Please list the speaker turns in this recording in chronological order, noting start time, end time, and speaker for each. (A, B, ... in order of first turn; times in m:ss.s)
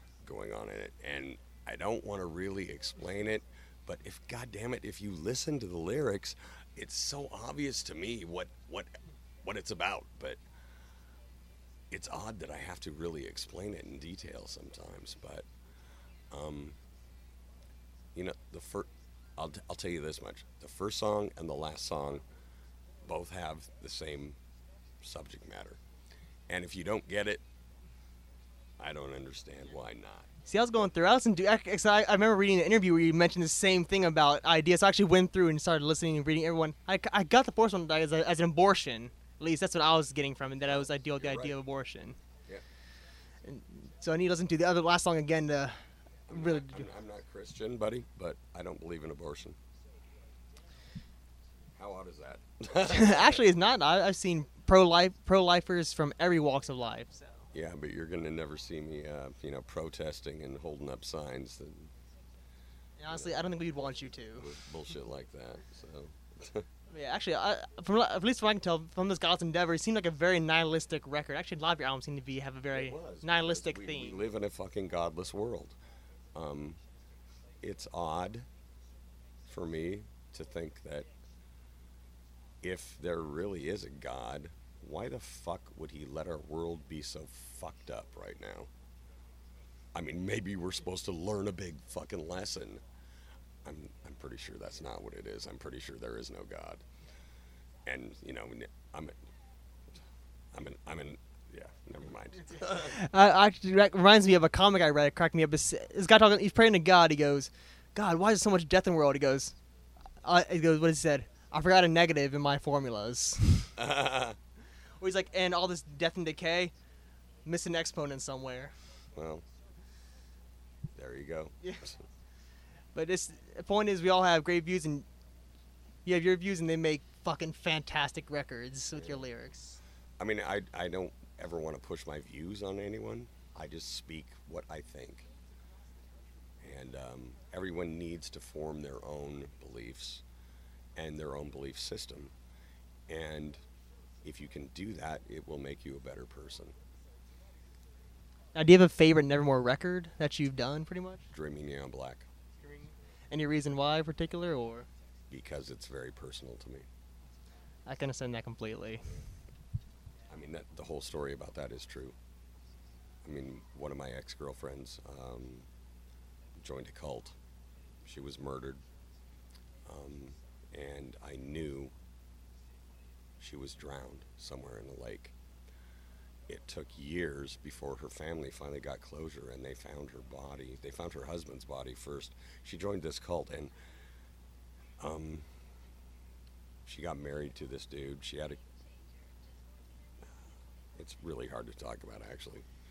0:00.2-0:08.9 A
0:09.4-0:10.4 A
0:11.9-0:15.4 A
0:16.3-0:16.8 A
0:18.1-0:22.2 A
0:23.0-0:24.4 A
0:25.0-0:25.8 A
0:26.5-0:27.4 A
0:28.8-0:30.3 A
0:30.4-0:42.2 B
0:40.6-0:41.5 A
0:43.4-0:45.8 B
0:46.3-0:49.6 A
0:46.3-0:46.8 B
0:51.8-0:53.4 A
0:52.8-0:57.5 B
0:57.5-1:01.9 A
1:03.0-1:04.5 B
1:03.1-1:03.6 A
1:04.4-1:06.6 A
1:06.9-1:14.2 B
1:12.7-1:15.8 A
1:16.3-1:16.8 A
1:17.6-1:18.5 A
1:19.5-1:21.1 A
1:22.6-1:28.7 A
1:29.9-1:32.8 A
1:33.6-1:36.8 A
1:37.8-1:39.2 A
1:40.5-1:42.9 A
1:42.6-1:49.5 B
1:50.2-1:53.7 B
1:53.8-1:54.4 A
1:55.0-1:56.7 B
1:57.4-1:58.7 B
1:59.2-1:59.4 A
2:00.9-2:02.0 A
2:02.9-2:05.1 B
2:06.0-2:09.8 B
2:08.9-2:09.2 A
2:10.2-2:15.3 A
2:16.6-2:20.2 A
2:21.0-2:22.3 A
2:23.1-2:23.6 A
2:24.2-2:26.7 A
2:28.5-2:31.2 B
2:31.3-2:32.3 A
2:32.7-2:34.9 B
2:35.3-2:36.9 A
2:37.9-2:39.1 B
2:40.3-2:42.2 A
2:43.2-2:45.7 A
2:46.6-2:47.4 A
2:48.0-2:48.8 A
2:49.8-2:51.9 A
2:53.4-2:55.3 A
2:56.5-3:03.7 A
3:05.0-3:05.5 A
3:06.8-3:08.6 A
3:11.0-3:12.6 A